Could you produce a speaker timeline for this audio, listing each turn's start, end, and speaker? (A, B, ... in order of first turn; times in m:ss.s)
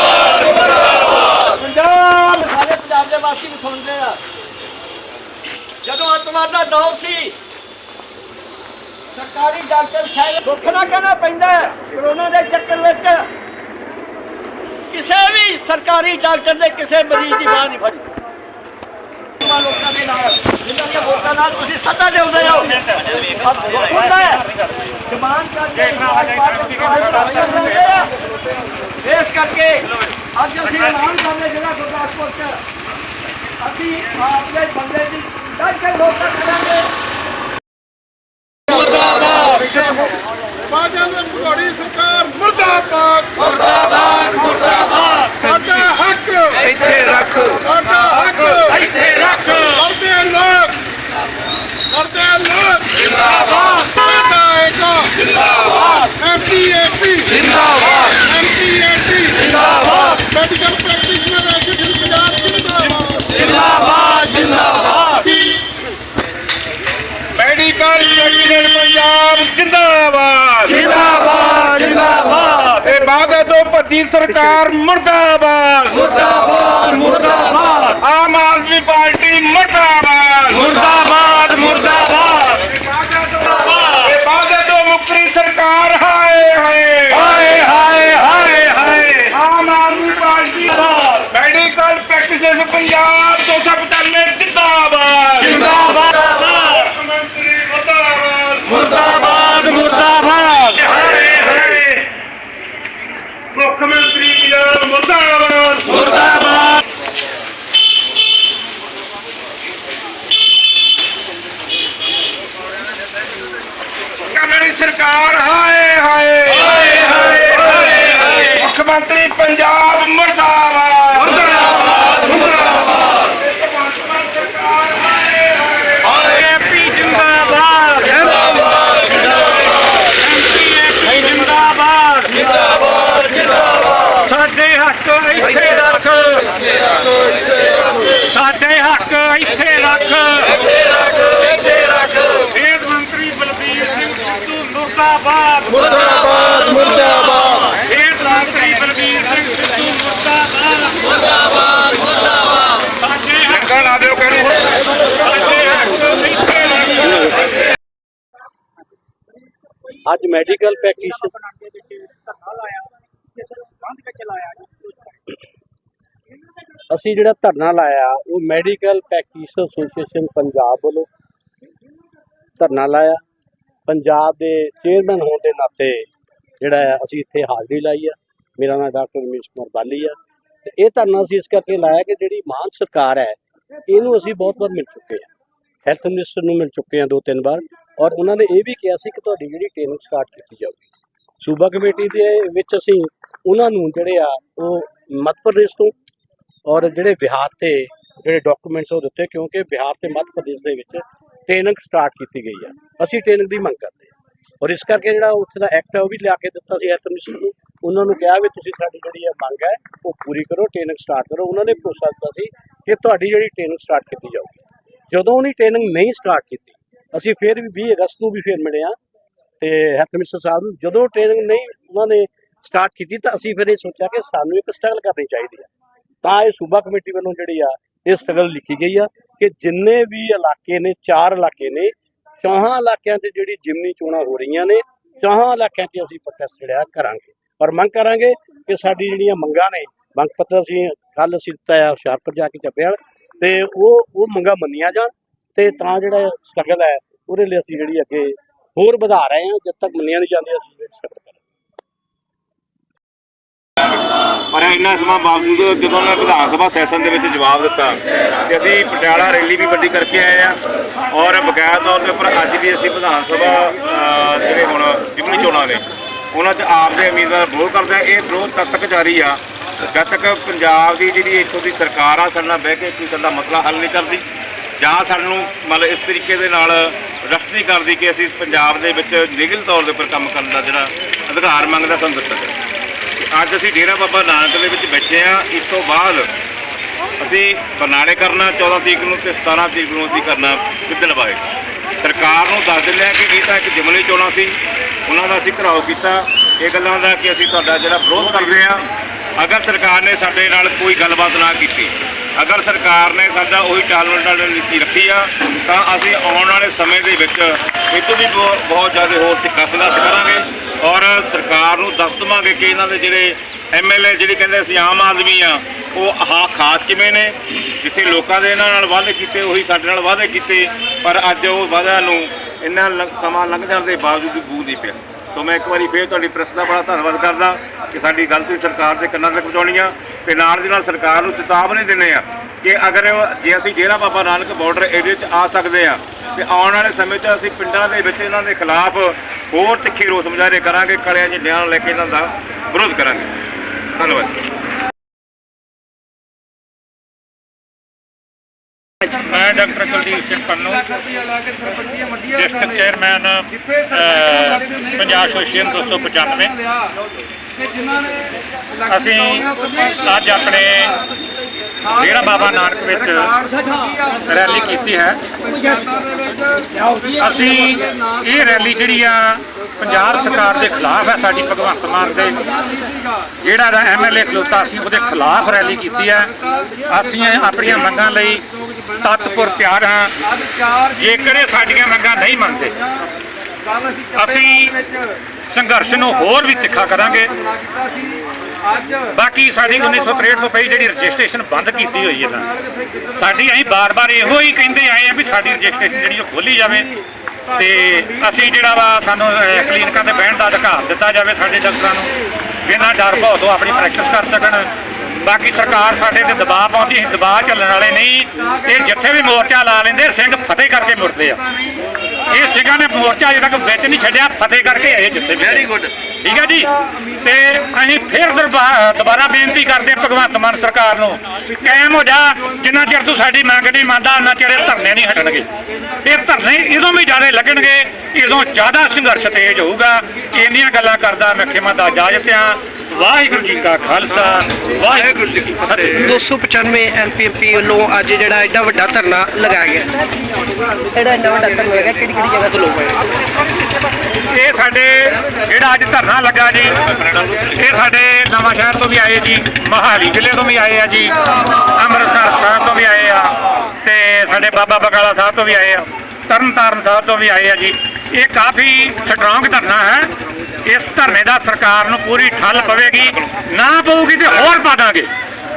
0:01.3-0:04.2 A
0:05.8-0:07.4 A
0:09.1-0:13.3 A
0:14.9-0:18.0 A
0:19.4-0:24.5 A
0:25.1-0:28.1 A
0:29.0-0:32.6 A
0:33.6-0:36.9 A
0:39.7-0:40.0 B
0:40.7-0:43.5 B
0:45.3-0:46.7 B
0:47.5-0:48.8 B
0:48.8-0:49.7 C
0:49.7-0:50.8 B
0:51.9-0:52.9 B
0:53.8-0:55.1 B
0:56.1-0:57.4 B
0:58.2-0:59.5 B
0:59.6-1:00.2 D
1:00.3-1:03.1 B
1:04.5-1:04.9 D
1:07.4-1:11.0 D
1:10.9-1:12.6 C
1:11.6-1:16.7 D
1:16.7-1:17.8 C
1:17.9-1:20.9 D
1:20.7-1:22.6 C
1:23.3-1:27.3 D
1:27.2-1:29.3 C
1:29.3-1:35.6 D
1:35.4-1:36.9 C
1:37.1-1:38.7 D
1:38.7-1:42.0 C
1:43.6-1:46.1 D
1:44.7-1:45.0 C
1:54.3-2:02.6 D
2:03.7-2:06.0 D
2:06.1-2:08.5 C
2:10.1-2:12.4 C
2:14.2-2:16.5 C
2:18.2-2:20.7 C
2:22.3-2:31.1 C
2:33.0-2:34.4 C
2:33.9-2:34.4 D
2:35.2-2:37.3 C
2:40.0-2:41.6 E
2:46.9-2:51.1 E
2:52.6-2:53.2 E
2:53.9-2:56.1 E
2:56.6-3:05.3 E
3:05.8-3:10.8 E
3:11.4-3:15.9 E
3:16.7-3:34.6 E
3:35.1-3:39.0 E
3:39.6-3:45.7 E
3:46.2-4:11.4 E
4:14.5-4:20.6 F
4:21.1-4:34.2 F
4:34.8-4:42.5 F
4:43.2-4:46.3 F
4:47.2-4:51.4 F
4:52.0-4:58.8 F
4:59.4-5:43.3 F
5:44.0-5:44.3 F
5:49.0-5:50.9 C
5:52.3-5:56.5 C
5:58.9-6:01.0 C
6:02.0-6:03.4 C
6:04.2-6:05.2 C
6:07.2-6:12.5 C
6:13.4-6:16.3 C
6:16.8-6:18.4 C
6:19.0-6:20.1 C
6:20.9-6:22.8 C
6:24.2-6:24.8 C
6:25.5-6:27.3 C
6:29.1-6:32.5 C
6:33.1-6:36.9 C
6:37.5-6:42.1 C
6:42.6-6:44.7 C
6:45.2-6:51.4 C
6:52.3-6:55.7 C
6:55.4-6:55.9 F
6:56.2-6:56.7 C
6:57.2-7:05.5 C
7:06.0-7:16.2 C
7:15.9-7:19.9 G
7:20.9-7:23.0 G
7:24.3-7:31.1 C
7:31.8-7:40.1 C
7:40.6-7:45.1 C